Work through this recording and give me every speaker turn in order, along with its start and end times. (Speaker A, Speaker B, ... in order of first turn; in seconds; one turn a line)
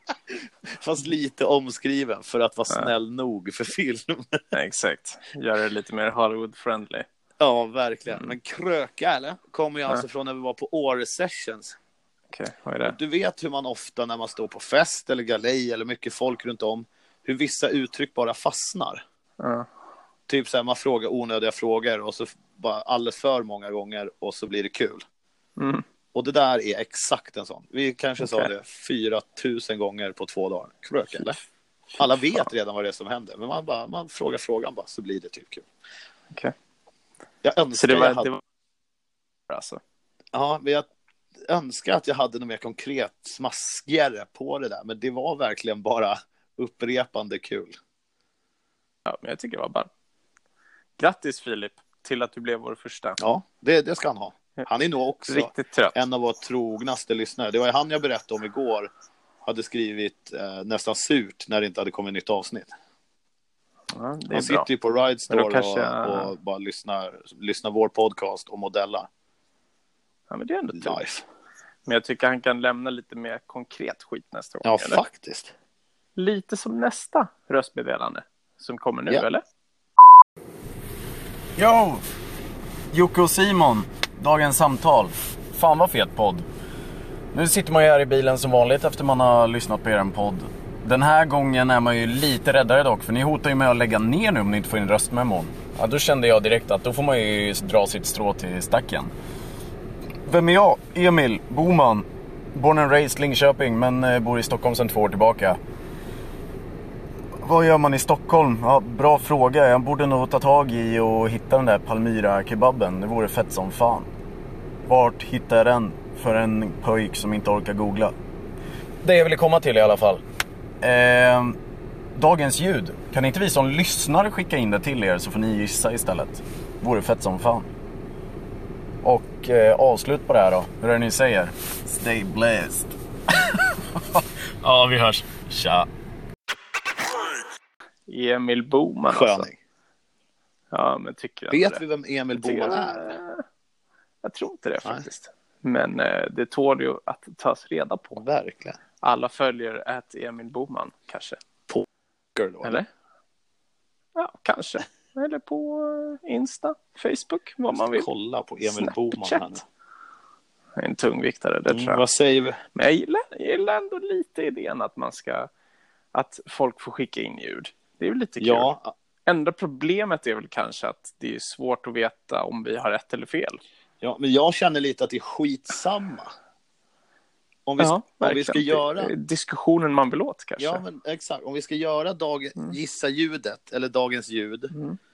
Speaker A: 0.3-4.4
Speaker B: 4.5-7.0
Speaker A: 7.4-11.7
Speaker B: 12.3-12.9
Speaker A: 12.8-19.0
Speaker B: 19.4-19.7
Speaker A: 20.3-25.0
Speaker B: 25.6-25.8
Speaker A: 26.1-31.4
Speaker B: 28.2-28.5
Speaker B: 31.9-32.5
Speaker A: 32.0-35.6
Speaker A: 37.4-38.3
Speaker B: 37.7-38.4
Speaker B: 39.5-39.8
Speaker A: 40.3-40.9
Speaker A: 41.5-47.8
Speaker B: 49.0-49.9
Speaker B: 51.0-53.2
Speaker A: 53.2-58.9
Speaker B: 55.3-56.0
Speaker A: 59.4-62.7
Speaker B: 63.9-64.7
Speaker A: 64.3-69.1
Speaker B: 65.3-66.3
Speaker B: 70.3-71.0
Speaker A: 70.7-71.2
Speaker B: 71.8-75.0
Speaker A: 74.6-75.5
Speaker B: 76.2-79.4
Speaker C: 81.6-82.0
Speaker C: 82.9-86.4
Speaker C: 87.3-99.1
Speaker C: 100.2-105.6
Speaker C: 107.4-114.1
Speaker C: 114.9-118.1
Speaker C: 119.0-120.2
Speaker C: 120.8-121.5
Speaker C: 122.2-127.7
Speaker C: 129.0-135.9
Speaker B: 138.1-139.5
Speaker A: 139.1-139.6
Speaker B: 140.7-141.8
Speaker A: 141.5-143.2
Speaker B: 142.4-143.4
Speaker B: 144.2-148.2
Speaker A: 148.1-148.8
Speaker B: 149.0-151.4
Speaker A: 151.7-152.8
Speaker B: 154.1-158.1
Speaker A: 157.8-159.6
Speaker B: 158.6-159.5
Speaker B: 160.8-162.0
Speaker A: 161.7-162.6
Speaker B: 162.7-165.5
Speaker B: 166.1-168.7
Speaker A: 168.4-168.9
Speaker B: 169.3-173.6
Speaker A: 174.0-176.3
Speaker A: 177.7-179.1
Speaker B: 177.8-180.8
Speaker A: 180.6-184.7